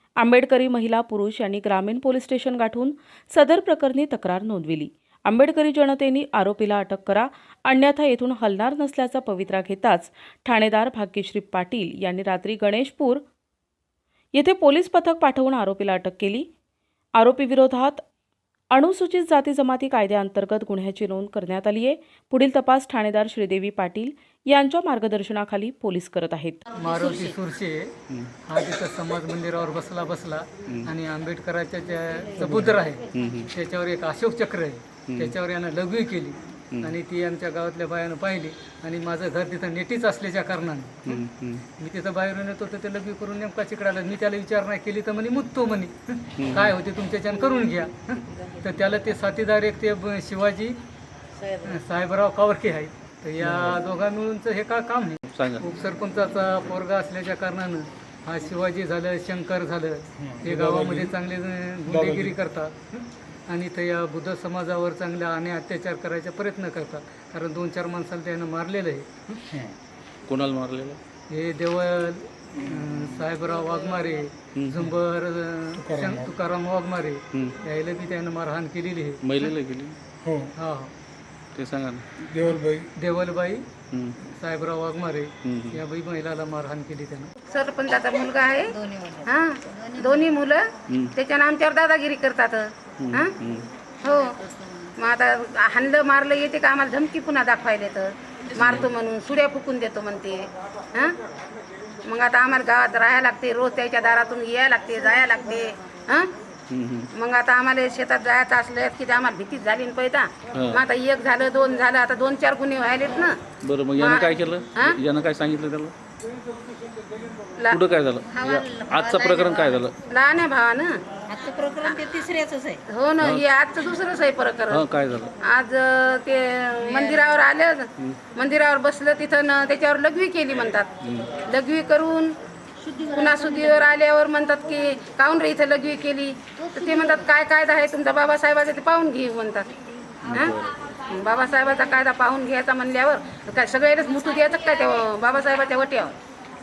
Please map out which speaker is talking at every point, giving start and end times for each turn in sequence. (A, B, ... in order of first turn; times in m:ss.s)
0:00.2-0:13.2 A
0:14.4-0:16.5 A
0:17.2-0:18.0 A
0:18.7-0:26.6 A
0:26.7-0:50.8 B
0:28.1-0:28.3 C
0:30.7-0:30.9 C
0:32.7-0:33.5 C
0:35.1-0:35.4 C
0:41.0-0:41.7 C
0:46.4-0:46.8 C
0:51.4-1:09.4 B
0:53.4-0:53.8 D
0:55.3-0:55.6 C
1:00.2-1:01.2 D
1:01.9-1:02.4 D
1:10.3-1:11.0 C
1:11.3-1:19.5 B
1:14.6-1:14.9 C
1:15.8-1:16.3 D
1:17.3-1:17.6 C
1:19.2-1:20.0 C
1:20.2-1:20.5 D
1:20.6-1:20.9 B
1:21.6-1:22.1 C
1:22.2-1:22.9 D
1:23.0-1:23.7 B
1:23.9-1:24.2 C
1:24.2-1:27.3 B
1:25.4-1:25.8 C
1:27.5-1:33.3 E
1:28.7-1:30.2 F
1:30.9-1:31.2 C
1:33.0-1:33.7 C
1:34.0-1:34.4 E
1:35.0-1:41.2 E
1:38.6-1:38.9 C
1:42.0-1:46.3 E
1:46.7-1:47.1 C
1:47.2-1:53.4 E
1:50.5-1:50.8 C
1:53.6-1:55.9 C
1:54.0-1:55.0 E
1:57.6-1:57.8 E
1:57.7-2:00.0 C
1:58.3-1:59.8 F
2:00.1-2:01.0 E
2:01.3-2:02.8 F
2:01.8-2:02.2 E
2:02.9-2:04.8 E
2:03.2-2:03.5 C
2:04.7-2:05.3 C
2:05.4-2:12.4 E
2:06.9-2:07.3 F
2:11.0-2:11.4 C
2:12.8-2:13.8 F
2:13.0-2:19.7 E
2:20.2-2:20.6 E
2:20.2-2:20.8 C
2:21.1-2:26.2 E